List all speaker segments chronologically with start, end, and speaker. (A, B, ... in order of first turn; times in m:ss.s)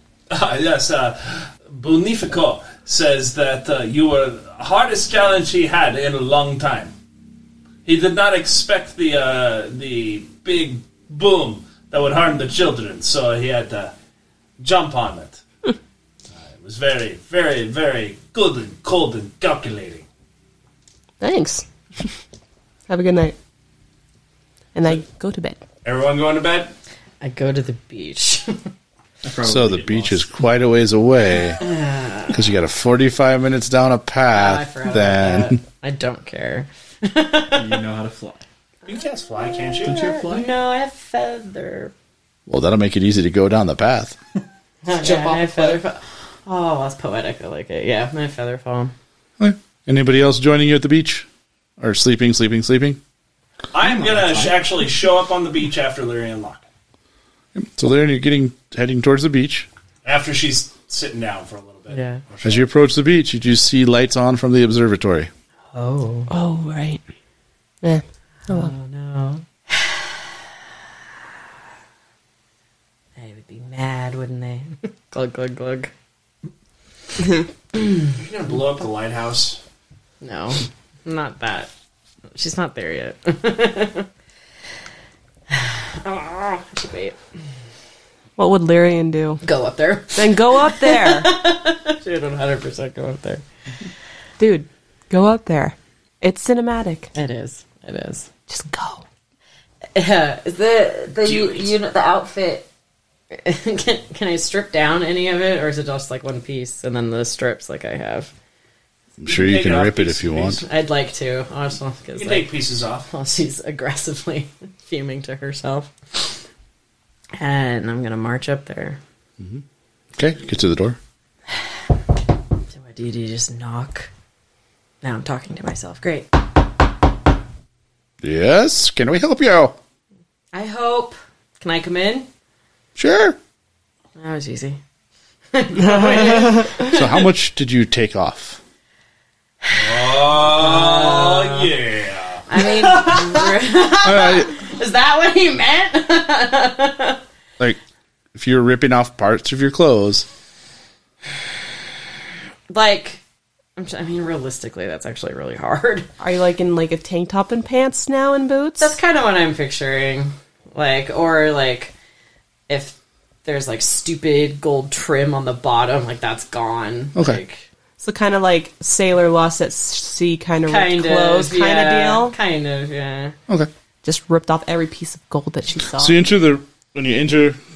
0:00.3-0:06.9 A
0:07.8-0:13.9 A
0:14.6-0:15.4 A
0:16.4-0:20.1 A
0:21.2-0:22.1 B
0:22.9-0:23.4 B
0:24.8-0:25.6 B
0:25.8-0:26.7 A
0:27.2-0:28.7 C
0:29.2-0:30.3 D
0:29.4-0:31.6 E
0:31.6-0:32.4 C
0:32.3-0:35.6 E
0:34.3-0:37.8 C
0:37.5-0:38.4 D
0:38.9-0:40.1 A
0:39.5-0:41.9 C
0:39.8-0:40.5 D
0:42.5-0:44.2 E
0:44.8-0:48.9 C
0:49.4-0:51.3 E
0:51.8-0:53.0 E
0:53.7-0:56.7 A
0:53.8-0:54.3 D
0:57.5-0:59.7 E
1:00.0-1:02.7 A
1:01.9-1:02.2 C
1:02.4-1:05.3 E
1:05.7-1:06.3 C
1:06.3-1:07.0 B
1:07.8-1:08.7 B
1:08.4-1:10.0 C
1:13.2-1:15.9 C
1:18.0-1:19.6 A
1:20.2-1:21.7 C
1:22.3-1:24.1 C
1:25.5-1:27.2 C
1:28.4-1:29.4 B
1:29.4-1:33.4 C
1:30.2-1:31.3 B
1:34.4-1:37.1 B
1:37.2-1:38.3 C
1:38.5-1:39.0 B
1:39.9-1:42.7 C
1:41.3-1:41.5 A
1:43.3-1:48.3 C
1:49.2-1:50.6 E
1:49.2-1:50.6 A
1:50.6-1:52.5 C
1:52.1-1:53.1 A
1:53.1-1:56.3 C
1:57.4-1:59.0 C
2:00.2-2:01.0 E
2:02.7-2:04.1 C
2:05.0-2:06.3 C
2:08.2-2:09.8 E
2:10.5-2:12.3 C
2:13.0-2:13.4 E
2:14.2-2:14.8 C
2:15.5-2:17.2 C
2:15.8-2:16.8 B
2:16.9-2:18.6 E
2:19.7-2:21.7 C
2:19.7-2:23.2 A
2:22.5-2:27.2 C
2:24.0-2:24.5 E
2:28.4-2:30.3 E
2:32.7-2:33.2 C
2:33.8-2:36.1 C
2:36.2-2:39.0 B
2:38.8-2:41.9 C
2:42.7-2:47.6 C
2:47.2-2:47.4 E
2:48.0-2:52.3 B
2:50.7-2:53.4 C
2:54.0-2:56.2 B
2:56.0-2:57.6 E